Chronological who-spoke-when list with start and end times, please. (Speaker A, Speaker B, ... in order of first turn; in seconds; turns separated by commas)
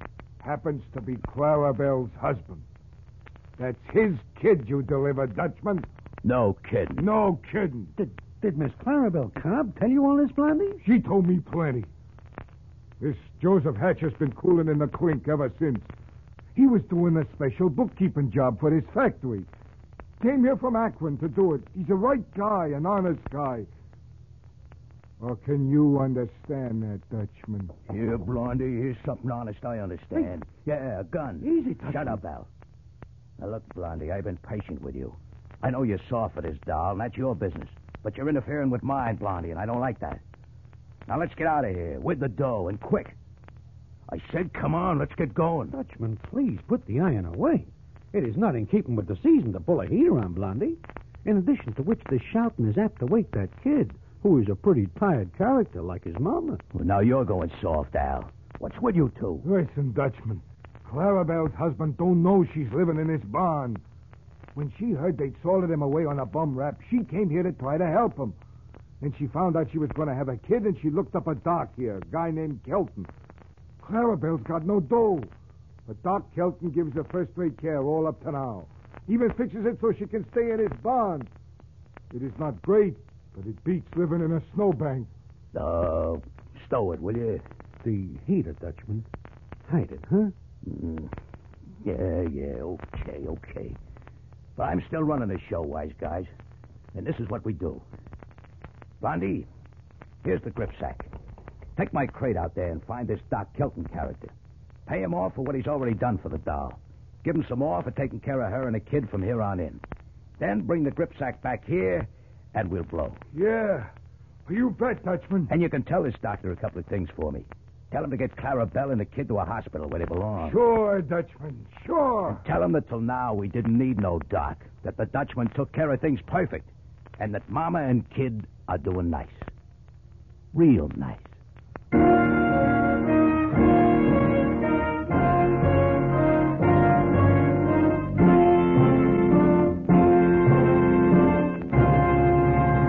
Speaker A: 0.4-2.6, Speaker A: 3.6-5.9, Speaker B: 6.2-7.0, Speaker A: 7.0-7.9, Speaker C: 8.0-10.8, Speaker A: 10.8-11.9, Speaker A: 13.0-15.9, Speaker A: 16.5-19.5, Speaker A: 20.2-23.7, Speaker A: 25.2-27.7, Speaker B: 27.9-32.5, Speaker C: 31.4-32.2, Speaker B: 33.4-40.2, Speaker B: 41.1-43.1, Speaker B: 44.1-45.7, Speaker C: 45.7-56.6, Speaker B: 56.7-59.5, Speaker A: 59.4-63.8, Speaker A: 64.5-68.3, Speaker A: 69.0-73.1, Speaker A: 73.8-75.3, Speaker A: 75.9-81.3, Speaker A: 82.1-85.1, Speaker B: 85.5-87.4, Speaker C: 87.8-89.1, Speaker C: 89.7-90.3, Speaker B: 90.6-91.1, Speaker B: 91.8-93.8, Speaker B: 94.6-96.3, Speaker B: 96.9-97.8, Speaker B: 99.0-99.5, Speaker B: 100.2-101.1, Speaker B: 101.8-104.3, Speaker B: 104.9-109.8, Speaker B: 110.4-113.2, Speaker A: 113.3-113.9, Speaker A: 114.5-115.5, Speaker B: 115.5-120.6, Speaker A: 120.4-122.4, Speaker B: 122.3-129.5, Speaker B: 130.5-131.3